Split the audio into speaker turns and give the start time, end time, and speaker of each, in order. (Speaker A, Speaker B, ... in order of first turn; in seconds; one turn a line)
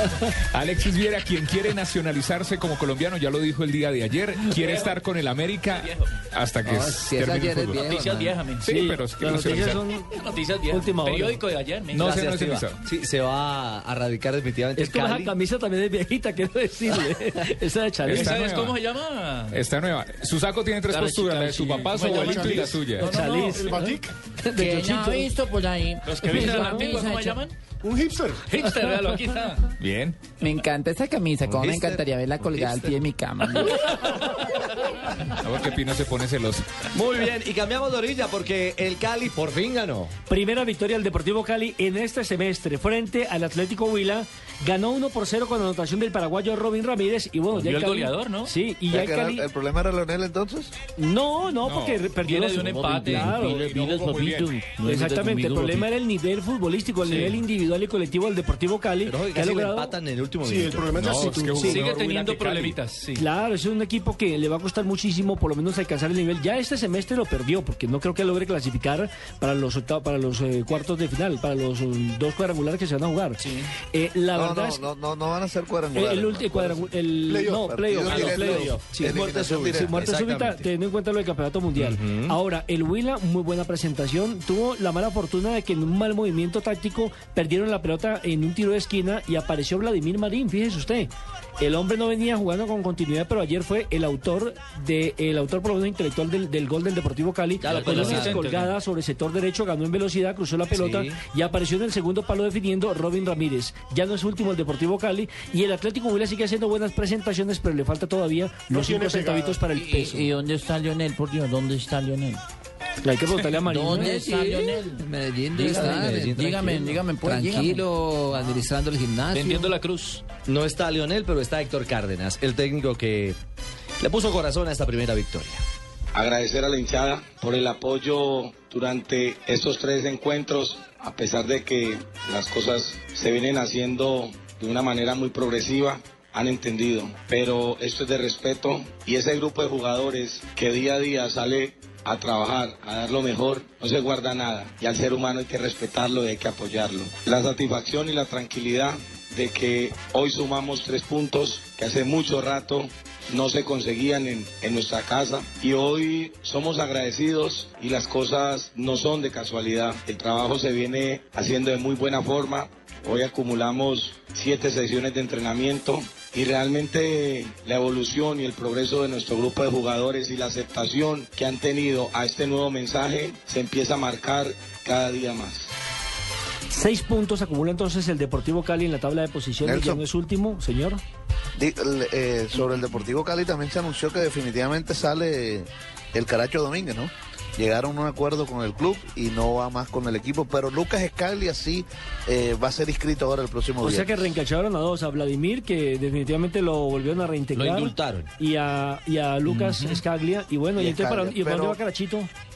Speaker A: 0.5-7.9
Speaker B: 4.5-5.0
Speaker B: 5.8-6.1
Speaker C: 6.7-8.4
Speaker B: 7.8-8.8
Speaker A: 8.6-9.9
Speaker D: 8.7-10.2
Speaker B: 10.1-12.1
Speaker D: 10.7-11.4
Speaker A: 11.9-12.8
Speaker E: 11.9-15.3
Speaker D: 14.8-18.5
Speaker A: 18.1-18.8
Speaker B: 18.1-19.6
Speaker A: 19.5-23.1
Speaker B: 20.9-22.7
Speaker D: 21.7-25.3
Speaker F: 21.9-24.1
Speaker G: 24.6-27.4
Speaker B: 26.1-27.5
Speaker D: 26.2-26.9
Speaker F: 27.8-28.5
Speaker B: 28.5-29.7
Speaker A: 29.8-30.2
Speaker G: 30.4-33.8
Speaker E: 31.4-33.0
Speaker A: 35.4-36.7
Speaker E: 36.9-40.1
Speaker D: 40.3-49.5
Speaker B: 47.5-48.5
Speaker H: 48.9-50.7
Speaker D: 51.0-53.6
Speaker A: 51.6-52.1
Speaker B: 52.2-53.7
Speaker G: 52.6-55.9
Speaker A: 53.4-54.6
Speaker D: 54.9-59.9
Speaker B: 57.1-57.4
Speaker E: 59.0-61.8
Speaker F: 60.4-61.9
Speaker A: 61.0-62.2
Speaker B: 61.6-63.2
Speaker D: 63.2-74.8
Speaker B: 73.4-73.7
Speaker H: 74.3-76.9
Speaker D: 75.9-110.3
Speaker F: 77.3-77.7
Speaker H: 77.5-80.0
Speaker E: 79.2-80.7
Speaker E: 81.8-82.4
Speaker E: 97.6-98.5
Speaker B: 97.7-98.8
Speaker E: 100.7-101.2
Speaker F: 108.7-109.7
Speaker G: 109.7-112.4
Speaker D: 113.0-114.3
Speaker G: 113.7-117.9
Speaker C: 113.9-119.7
Speaker E: 115.7-117.0
Speaker B: 119.3-120.2
Speaker E: 120.5-123.4
Speaker E: 124.0-125.6
Speaker I: 126.2-175.7
Speaker D: 176.7-181.0
Speaker H: 179.6-180.0
Speaker H: 181.6-194.2
Speaker D: 193.8-202.3
Speaker E: 197.5-198.3
Speaker B: 199.7-200.0
Speaker H: 200.8-201.8